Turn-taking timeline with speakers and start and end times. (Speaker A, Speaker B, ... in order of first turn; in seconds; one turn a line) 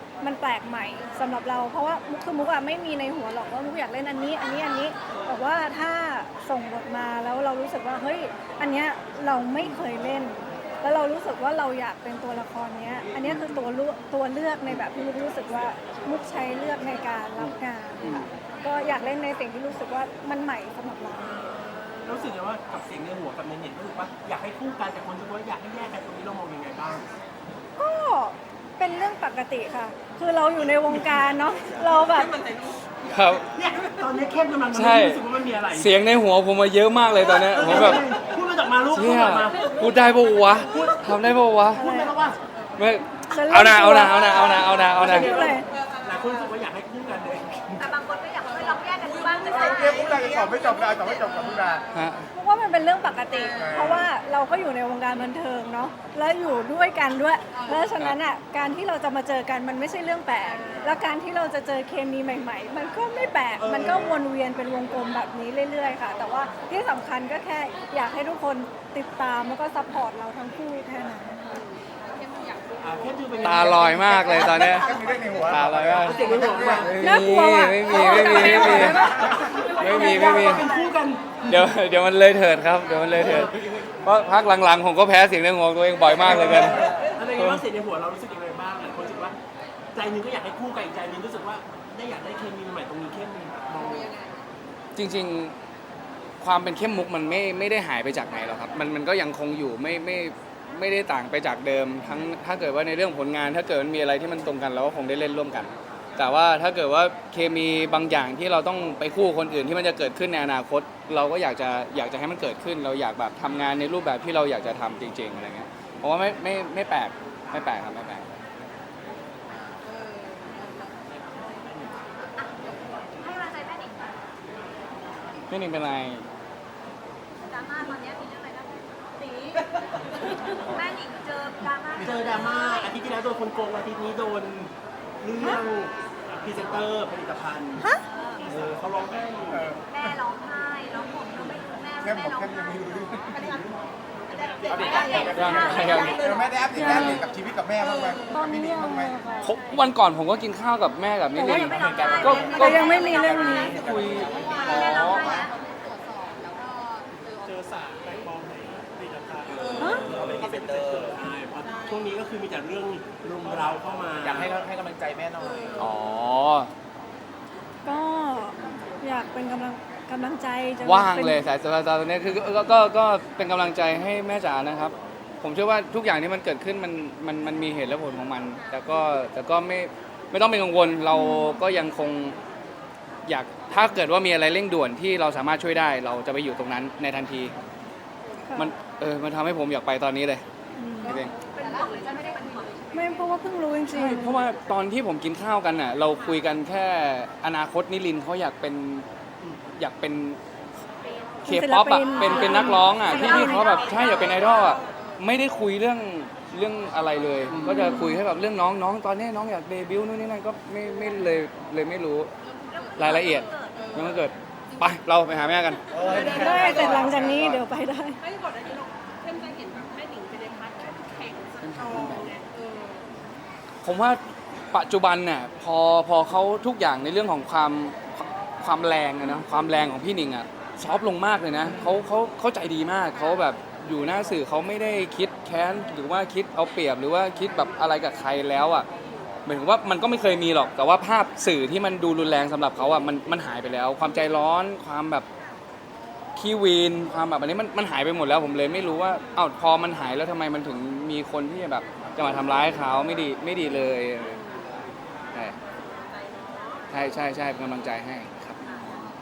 Speaker A: 0.2-21.5
Speaker B: 13.3-13.6
Speaker B: 17.4-18.3
Speaker B: 22.0-27.1
Speaker A: 27.8-32.4
Speaker C: 33.1-33.5
Speaker B: 33.5-35.9
Speaker C: 34.7-35.2
Speaker C: 35.7-38.0
Speaker B: 37.3-42.5
Speaker C: 38.9-41.9
Speaker A: 41.7-42.1
Speaker C: 42.8-45.4
Speaker A: 43.3-45.7
Speaker B: 44.9-47.9
Speaker D: 47.8-50.3
Speaker E: 48.8-51.8
Speaker F: 49.5-51.9
Speaker C: 51.9-52.2
Speaker A: 52.3-71.7
Speaker F: 53.6-54.1
Speaker E: 60.6-60.9
Speaker B: 63.6-64.2
Speaker E: 72.2-72.8
Speaker B: 72.8-75.0
Speaker C: 73.4-80.7
Speaker F: 74.7-76.9
Speaker B: 76.0-77.1
Speaker A: 77.0-79.7
Speaker B: 77.9-81.7
Speaker F: 78.9-79.4
Speaker C: 81.5-87.6
Speaker B: 83.1-83.6
Speaker B: 86.1-89.4
Speaker B: 89.9-94.2
Speaker E: 94.0-94.3
Speaker C: 95.0-95.5
Speaker C: 96.4-118.3
Speaker E: 119.9-120.9
Speaker D: 123.2-124.1
Speaker C: 125.5-126.3
Speaker D: 127.5-129.7
Speaker D: 130.5-132.9
Speaker B: 132.0-137.9
Speaker D: 138.0-138.5
Speaker B: 138.4-139.8
Speaker F: 139.5-139.8
Speaker D: 139.9-142.7
Speaker F: 142.0-143.7
Speaker E: 144.3-146.5
Speaker F: 144.6-149.2
Speaker D: 144.8-146.4
Speaker C: 145.3-146.2
Speaker A: 146.7-147.3
Speaker C: 146.8-147.2
Speaker A: 148.3-149.6
Speaker C: 149.4-153.1
Speaker A: 151.4-151.7
Speaker D: 151.4-153.9
Speaker A: 152.5-153.8
Speaker E: 152.7-160.0
Speaker F: 153.2-155.4
Speaker C: 153.7-155.0
Speaker D: 154.5-155.5
Speaker B: 159.4-164.6
Speaker A: 159.8-160.1
Speaker F: 160.1-161.1
Speaker F: 164.2-165.7
Speaker E: 165.4-165.8
Speaker C: 165.8-166.7
Speaker A: 167.8-171.4
Speaker C: 170.8-182.4
Speaker A: 181.1-181.6
Speaker C: 183.3-187.5
Speaker A: 188.5-188.7
Speaker C: 188.6-190.4
Speaker A: 190.8-191.2
Speaker C: 191.0-191.3
Speaker D: 191.5-192.9
Speaker E: 191.6-192.9
Speaker A: 192.9-194.4
Speaker C: 193.9-199.1
Speaker C: 199.8-200.4
Speaker A: 201.4-203.8
Speaker C: 201.4-212.3
Speaker B: 202.4-202.8
Speaker D: 203.1-204.4
Speaker E: 203.9-204.9
Speaker B: 207.5-207.9
Speaker A: 207.6-208.2
Speaker D: 212.7-213.8
Speaker C: 213.0-216.6
Speaker E: 213.8-214.1
Speaker E: 215.9-217.3
Speaker B: 216.1-216.9
Speaker A: 216.3-218.2
Speaker E: 218.2-223.0
Speaker C: 221.6-222.3
Speaker C: 223.8-224.2
Speaker C: 224.7-238.9
Speaker C: 239.5-245.3
Speaker C: 246.4-254.4
Speaker E: 256.1-256.9
Speaker C: 256.9-259.1